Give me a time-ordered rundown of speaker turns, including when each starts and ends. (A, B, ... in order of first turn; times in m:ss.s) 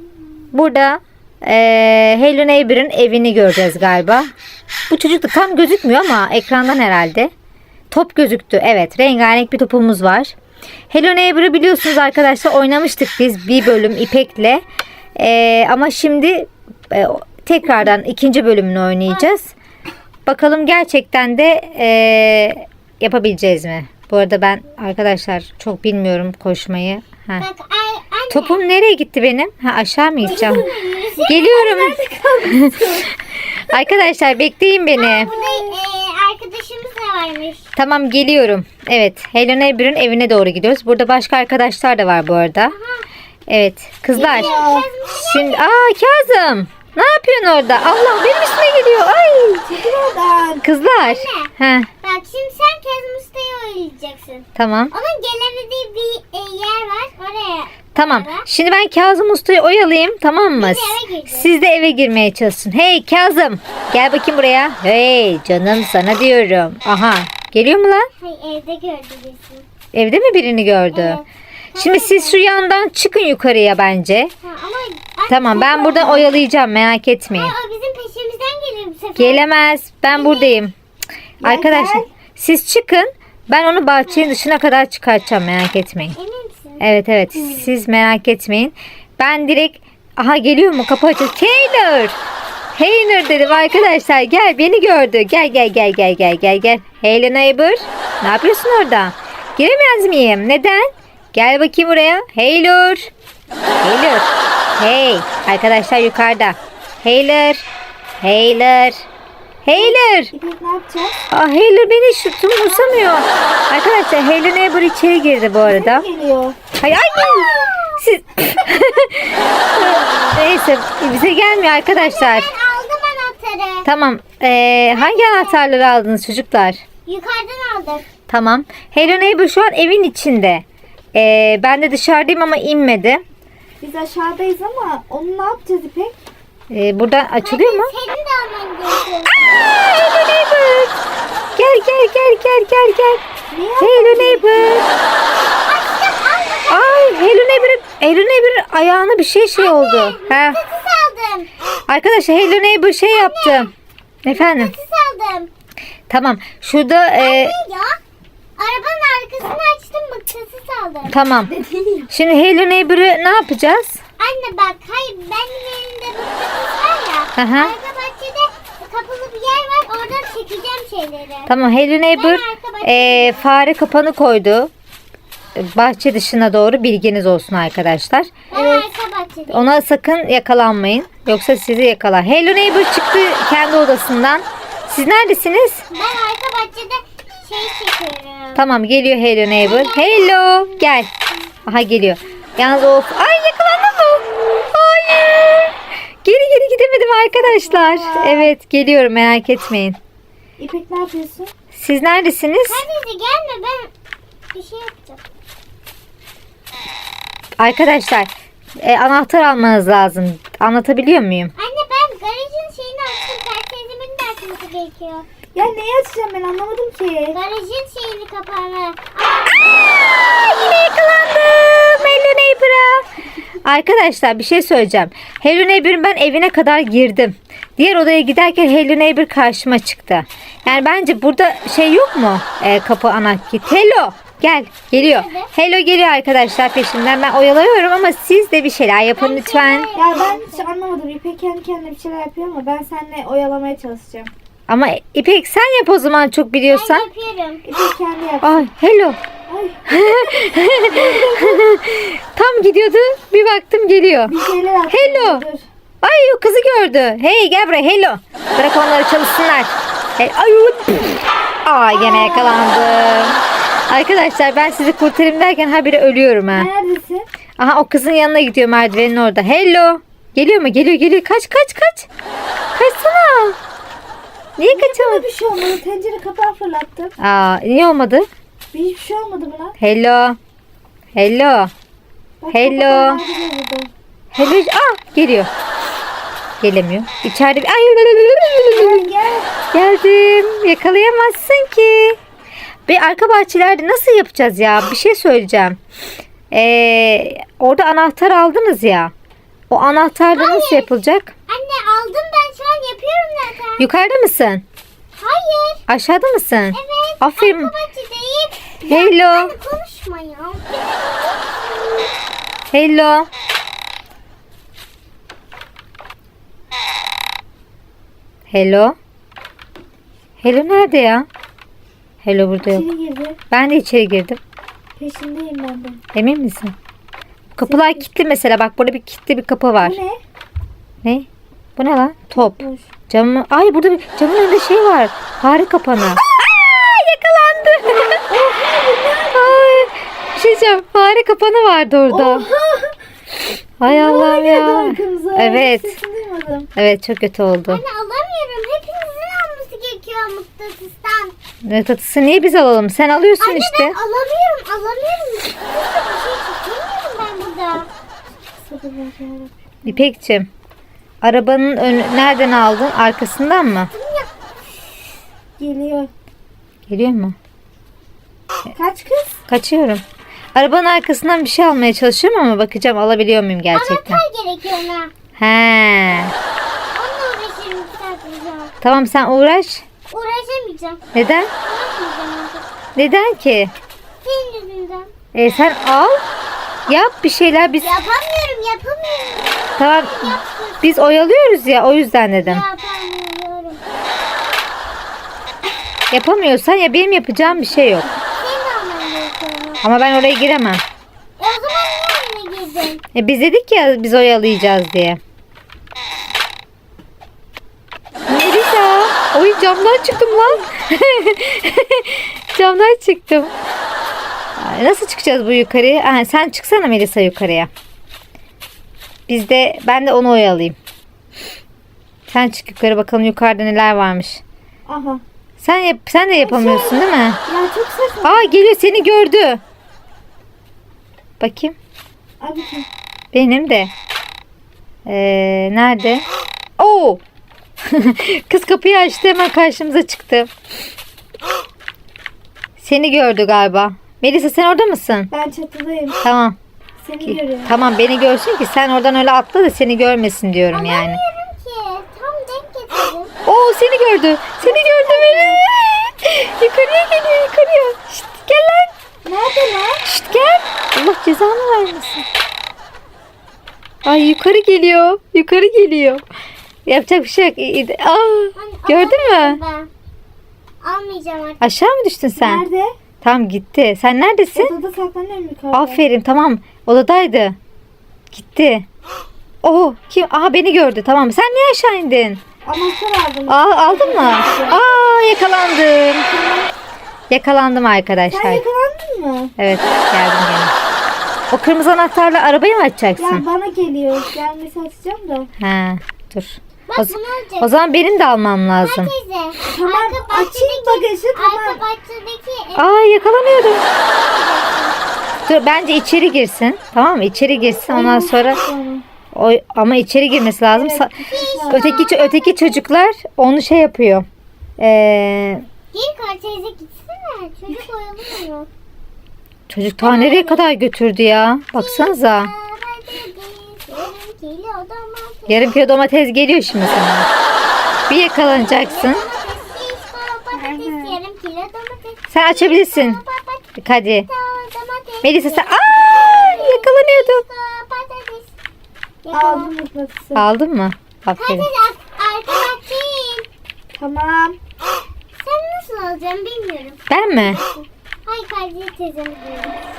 0:00.5-0:04.3 A
0:04.9-0:07.3 A
0:07.9-0:10.3 A
0:10.9-0:14.6 A
0:15.2-0:19.5 A
0:19.1-0:19.3 B
0:20.3-0:27.5 A
0:27.4-0:28.6 B
0:28.3-0:30.7 A
0:30.2-0:31.7 B
0:30.2-0:33.2 C
0:31.3-0:32.0 A
0:32.5-0:35.3 A
0:33.7-0:34.0 C
0:34.9-0:37.6 B
0:35.2-0:35.8 C
0:37.8-0:42.8 A
0:42.7-0:43.0 B
0:43.5-0:44.5 A
0:44.1-0:44.9 C
0:44.1-0:45.9 B
0:45.1-0:49.7 A
0:49.7-0:50.7 C
0:50.6-0:51.9 A
0:50.8-0:58.5 B
0:54.6-0:54.9 A
0:58.0-1:08.1 A
1:00.6-1:01.5 B
1:08.2-1:09.6 B
1:09.9-1:11.2 A
1:10.9-1:12.4 B
1:11.8-1:14.3 A
1:14.4-1:16.2 B
1:15.3-1:17.5 A
1:15.7-1:16.3 C
1:17.3-1:19.4 B
1:19.2-1:20.7 A
1:20.1-1:20.7 B
1:21.4-1:22.1 C
1:21.4-1:26.2 A
1:26.2-1:26.8 B
1:26.8-1:32.2 A
1:32.8-1:43.1 A
1:33.4-1:33.9 B
1:43.8-1:47.6 A
1:48.2-1:49.0 A
1:49.6-1:50.3 A
1:50.3-1:51.2 C
1:51.3-1:56.0 A
1:52.6-1:53.6 B
1:55.6-1:56.6 C
1:56.8-2:02.5 A
1:57.2-1:58.0 B
1:59.8-2:00.3 C
2:02.0-2:03.9 B
2:03.8-2:06.8 A
2:04.9-2:05.6 B
2:07.0-2:08.1 B
2:08.3-2:13.2 A
2:13.8-2:16.1 C
2:16.7-2:17.9 A
2:17.4-2:19.4 B
2:19.6-2:21.0 A
2:21.6-2:23.2 A
2:23.5-2:25.0 C
2:23.8-2:24.9 A
2:25.6-2:27.3 B
2:26.7-2:30.6 A
2:29.6-2:31.5 B
2:31.9-2:33.7 A
2:33.1-2:33.7 B
2:34.2-2:34.7 A
2:34.3-2:35.5 B
2:36.1-2:37.6 A
2:37.2-2:38.0 B
2:38.6-2:41.2 B
2:41.1-2:41.5 A
2:41.5-2:42.1 C
2:42.1-2:44.0 A
2:44.2-2:51.5 B
2:47.4-2:47.7 A
2:51.5-2:54.7 A
2:52.1-2:53.4 B
2:55.6-2:58.4 A
2:58.5-2:59.7 B
2:58.5-2:58.9 C
2:59.5-3:05.9 A
3:05.9-3:08.6 B
3:08.6-3:11.1 A
3:09.6-3:10.2 B
3:11.7-3:20.0 A
3:17.4-3:18.5 C
3:20.6-3:21.5 C
3:21.8-3:22.8 A
3:22.7-3:23.9 B
3:24.5-3:25.2 B
3:27.6-3:28.3 A
3:28.8-3:31.5 A
3:31.6-3:35.3 B
3:35.5-3:37.4 C
3:37.3-3:40.0 B
3:39.8-3:43.0 A
3:43.6-3:59.9 A
3:54.9-3:55.5 B
3:59.2-4:00.6 B
3:59.9-4:04.3 C
4:04.7-4:07.1 A
4:06.7-4:07.6 B
4:07.7-4:08.7 C
4:08.4-4:09.2 A
4:09.5-4:11.6 C
4:09.9-4:14.3 A
4:14.3-4:15.7 C
4:14.9-4:15.4 A
4:16.0-4:26.7 A
4:22.0-4:23.2 C
4:26.5-4:27.2 C
4:27.6-4:32.1 A
4:32.8-4:33.6 A
4:34.6-4:35.3 A
4:34.7-4:37.1 C
4:37.2-4:38.3 A
4:38.7-4:39.7 C
4:39.8-4:40.4 A
4:41.2-4:41.7 A
4:42.4-4:43.9 C
4:42.5-4:43.2 A
4:44.3-4:45.5 A
4:46.6-4:49.1 A
4:48.5-4:49.5 C
4:49.7-4:52.2 A
4:52.9-4:55.8 A
4:56.5-4:59.1 A
4:59.7-5:01.3 A
5:00.3-5:03.9 B
5:03.8-5:04.6 A
5:05.2-5:05.8 B
5:05.9-5:07.7 A
5:06.7-5:12.2 B
5:08.8-5:09.5 A
5:12.7-5:13.3 A
5:18.5-5:19.0 A
5:20.4-5:21.3 A
5:22.2-5:22.8 A
5:22.6-5:23.4 C
5:23.5-5:24.4 A
5:25.0-5:26.0 C
5:26.1-5:26.7 A
5:27.5-5:30.0 A
5:27.7-5:28.0 C
5:29.8-5:30.2 C
5:31.0-5:38.3 A
5:32.4-5:32.9 C
5:38.3-5:39.6 C
5:39.3-5:42.5 A
5:42.1-5:42.9 C
5:43.8-5:46.0 A
5:43.9-5:46.7 C
5:46.8-5:47.8 A
5:47.7-5:51.3 B
5:51.6-5:54.0 A
5:53.4-5:57.9 B
5:58.7-6:00.0 C
5:59.8-6:00.5 A
6:01.2-6:03.9 A
6:03.9-6:04.3 B
6:05.6-6:06.1 C
6:06.9-6:07.4 A
6:08.7-6:09.4 C
6:09.5-6:10.0 A
6:10.6-6:14.2 A
6:13.7-6:15.1 B
6:15.4-6:16.3 A
6:16.9-6:18.7 B
6:18.8-6:19.8 A
6:20.1-6:21.0 B
6:21.2-6:21.5 A
6:21.6-6:22.7 B
6:23.0-6:23.7 A
6:24.2-6:25.1 B
6:25.3-6:26.2 A
6:26.9-6:27.9 A
6:27.8-6:30.9 B
6:29.8-6:32.6 A
6:32.4-6:33.8 B
6:36.1-6:38.1 A
6:37.6-6:38.1 C
6:38.4-6:39.8 B
6:39.8-6:40.8 A
6:41.4-6:43.0 B
6:43.2-6:45.2 A
6:48.3-6:53.5 A
6:54.6-6:57.7 A
6:59.3-7:00.8 A
7:02.3-7:04.4 A
7:04.9-7:05.2 C
7:05.6-7:07.4 A
7:06.4-7:08.5 C
7:08.2-7:09.6 A
7:11.4-7:11.8 A
7:12.4-7:12.9 C
7:13.3-7:13.9 A
7:15.1-7:16.2 A
7:16.8-7:17.2 A
7:17.8-7:20.5 A
7:22.8-7:25.3 A
7:25.3-7:26.2 C
7:26.2-7:26.6 A
7:27.0-7:27.7 C
7:27.2-7:31.2 A
7:30.7-7:33.3 B
7:33.5-7:38.9 A
7:34.6-7:35.6 C
7:39.2-7:40.0 C
7:40.0-7:42.2 A
7:44.0-7:46.2 A
7:46.9-7:49.6 A
7:48.6-7:49.9 B
7:50.8-7:51.6 B
7:51.6-7:52.6 A
7:52.4-7:52.9 C
7:53.2-7:54.7 A
7:54.6-7:56.0 C
7:55.7-7:57.6 A
7:58.3-7:58.9 A
7:59.6-8:02.4 A
8:02.6-8:04.8 C
8:03.5-8:06.3 A
8:06.3-8:06.7 C
8:07.3-8:08.6 A
8:08.3-8:09.5 C
8:09.6-8:10.7 A
8:11.5-8:13.4 A
8:13.2-8:15.5 C
8:15.6-8:19.1 A
8:16.9-8:17.7 B
8:18.8-8:22.9 B
8:19.7-8:21.8 C
8:22.8-8:23.8 A
8:23.9-8:25.0 B
8:25.5-8:28.6 A
8:27.9-8:29.0 C
8:29.3-8:31.1 A
8:30.7-8:32.0 C
8:31.3-8:32.9 B
8:31.7-8:34.3 A
8:34.8-8:35.7 A
8:35.9-8:38.7 B
8:39.7-8:42.5 A
8:40.0-8:40.6 B
8:41.8-8:45.8 B
8:45.5-8:47.3 A
8:47.6-8:53.6 B
8:48.1-8:49.2 A
8:50.5-8:51.2 C
8:52.3-8:53.2 A
8:53.8-8:54.3 A
8:54.3-8:58.5 B
8:55.2-8:57.4 A
8:59.2-8:59.7 B
8:59.3-9:00.4 C
9:00.4-9:01.7 A
9:01.4-9:03.5 B
9:04.0-9:04.6 C
9:05.4-9:07.1 B
9:07.1-9:07.6 A
9:07.5-9:07.8 C
9:08.3-9:09.8 B